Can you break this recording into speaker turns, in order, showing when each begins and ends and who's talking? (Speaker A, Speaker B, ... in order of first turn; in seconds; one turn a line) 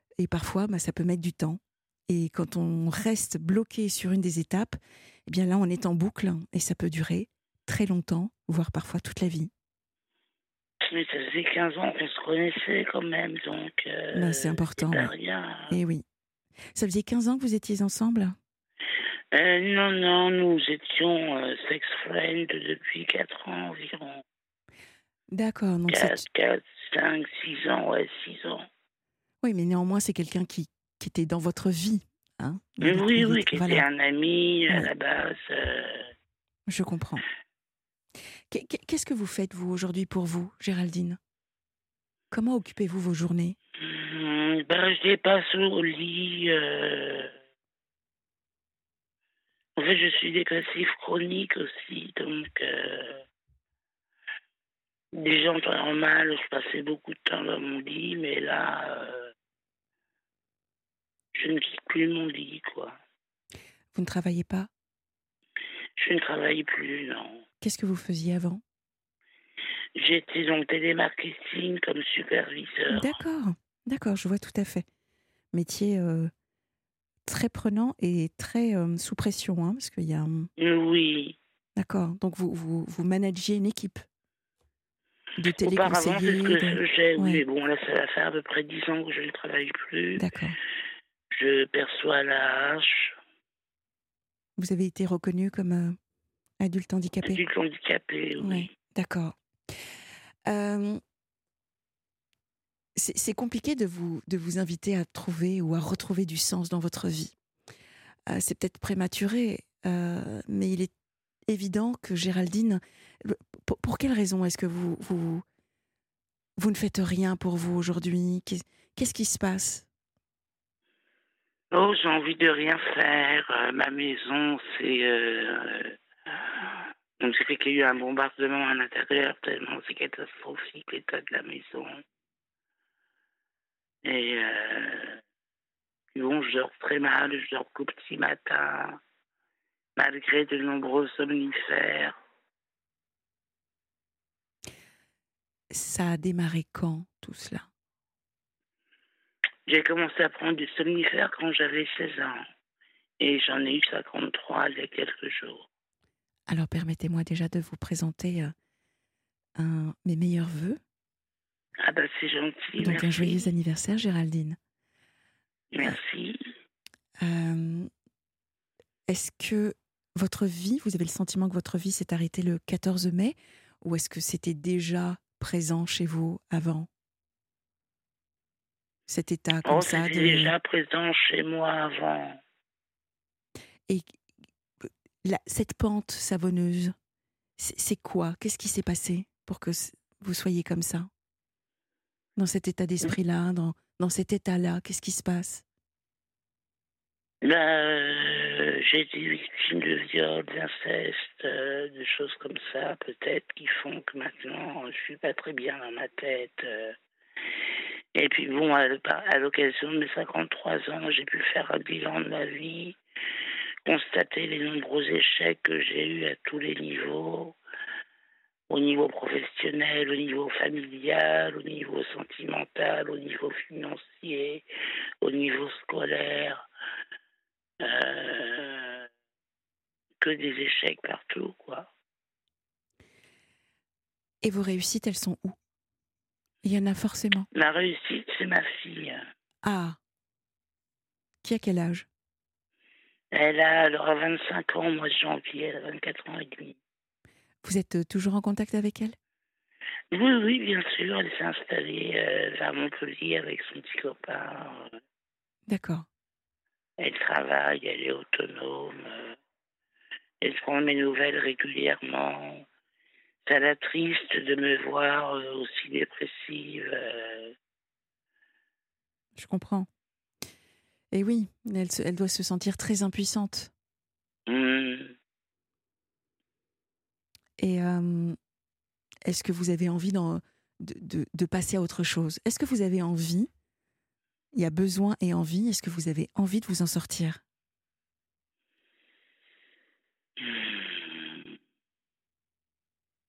Speaker A: 0.2-9.5
Speaker B: 10.8-15.8
Speaker A: 14.1-15.1
Speaker A: 15.7-16.0
Speaker A: 16.7-18.4
Speaker B: 19.3-24.2
Speaker A: 25.3-26.2
Speaker B: 25.9-28.7
Speaker A: 29.4-33.9
Speaker B: 32.8-36.1
Speaker A: 36.7-37.2
Speaker A: 38.5-41.2
Speaker A: 42.3-43.6
Speaker B: 43.8-47.3
Speaker B: 49.8-53.2
Speaker B: 55.1-59.3
Speaker B: 61.3-63.0
Speaker A: 63.9-64.7
Speaker B: 66.0-67.4
Speaker A: 67.6-68.6
Speaker B: 70.0-73.2
Speaker A: 72.9-74.8
Speaker A: 75.5-76.3
Speaker A: 77.2-80.5
Speaker B: 80.6-81.4
Speaker A: 81.8-84.0
Speaker A: 85.4-87.4
Speaker B: 85.6-90.2
Speaker A: 90.2-90.6
Speaker B: 91.3-93.2
Speaker A: 94.6-96.0
Speaker A: 96.6-97.4
Speaker B: 97.2-98.7
Speaker A: 98.4-99.4
Speaker A: 100.5-101.0
Speaker A: 103.0-107.3
Speaker A: 108.3-110.9
Speaker A: 111.5-115.4
Speaker A: 116.6-119.9
Speaker B: 121.7-132.0
Speaker B: 134.0-135.2
Speaker B: 136.1-139.0
Speaker B: 140.0-142.2
Speaker A: 145.7-147.7
Speaker B: 149.7-152.4
Speaker B: 153.2-155.7
Speaker A: 156.5-158.5
Speaker A: 159.6-160.8
Speaker B: 161.8-163.4
Speaker A: 162.8-164.6
Speaker B: 165.7-166.4
Speaker A: 167.2-167.9
Speaker A: 169.1-176.9
Speaker A: 179.1-180.5
Speaker B: 179.6-182.4
Speaker A: 184.8-186.9
Speaker A: 187.6-191.1
Speaker A: 192.4-195.6
Speaker B: 197.4-206.9
Speaker B: 208.2-213.0
Speaker B: 213.8-217.6
Speaker B: 218.7-224.7
Speaker B: 225.2-226.7
Speaker B: 227.8-229.1
Speaker B: 230.2-231.9
Speaker A: 234.4-235.6
Speaker A: 236.6-237.5
Speaker B: 237.5-239.2
Speaker A: 239.6-240.0
Speaker A: 241.4-242.1
Speaker B: 243.3-246.8
Speaker A: 247.6-249.2
Speaker B: 250.1-255.0
Speaker A: 255.7-256.1
Speaker B: 257.0-259.4
Speaker B: 260.4-262.6
Speaker B: 263.4-267.5
Speaker A: 269.4-269.9
Speaker A: 271.1-273.7
Speaker B: 274.5-275.1
Speaker A: 277.6-278.4
Speaker A: 279.2-283.5
Speaker A: 284.5-287.4
Speaker B: 290.4-291.6